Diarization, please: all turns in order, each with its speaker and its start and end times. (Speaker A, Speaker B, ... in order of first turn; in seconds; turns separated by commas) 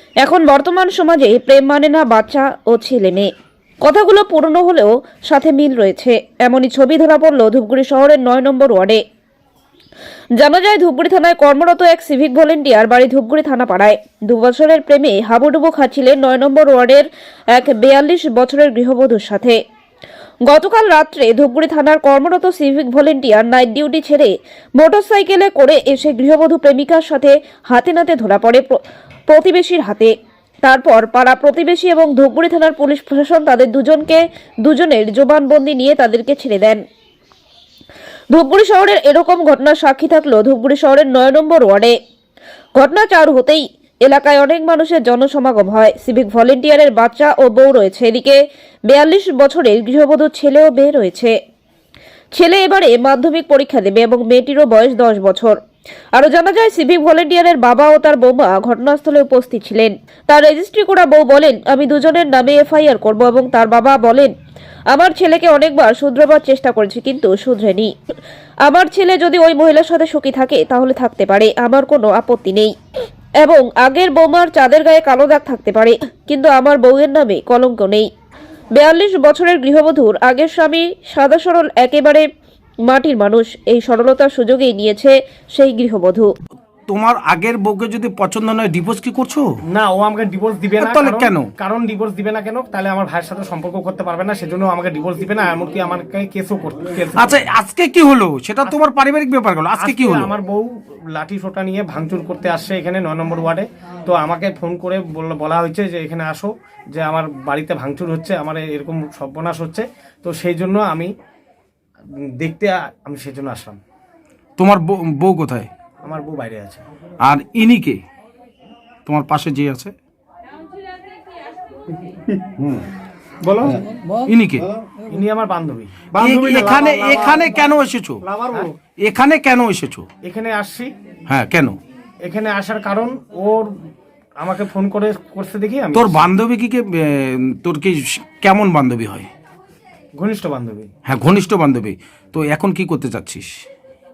Speaker A: 0.2-3.3, Speaker A: 3.8-9.0, Speaker A: 10.4-19.6, Speaker A: 20.5-30.1, Speaker A: 30.7-36.8, Speaker A: 38.3-42.0, Speaker A: 42.8-51.3, Speaker A: 52.4-55.6, Speaker A: 56.2-64.3, Speaker A: 64.9-67.9, Speaker A: 68.7-72.7, Speaker A: 73.4-78.1, Speaker A: 78.8-82.3, Speaker A: 82.9-86.3, Speaker B: 86.9-89.5, Speaker C: 89.7-97.4, Speaker B: 90.8-91.5, Speaker B: 97.2-100.3, Speaker C: 99.8-111.1, Speaker C: 112.4-113.8, Speaker B: 114.6-115.7, Speaker C: 116.0-116.8, Speaker B: 117.2-118.0, Speaker B: 119.1-119.9, Speaker B: 124.1-124.7, Speaker C: 125.1-127.5, Speaker B: 126.1-128.2, Speaker C: 128.3-128.7, Speaker B: 129.0-130.1, Speaker C: 130.2-130.9, Speaker B: 131.3-131.8, Speaker C: 132.2-133.7, Speaker C: 134.4-136.2, Speaker B: 135.9-139.3, Speaker C: 140.2-140.9, Speaker B: 141.1-143.6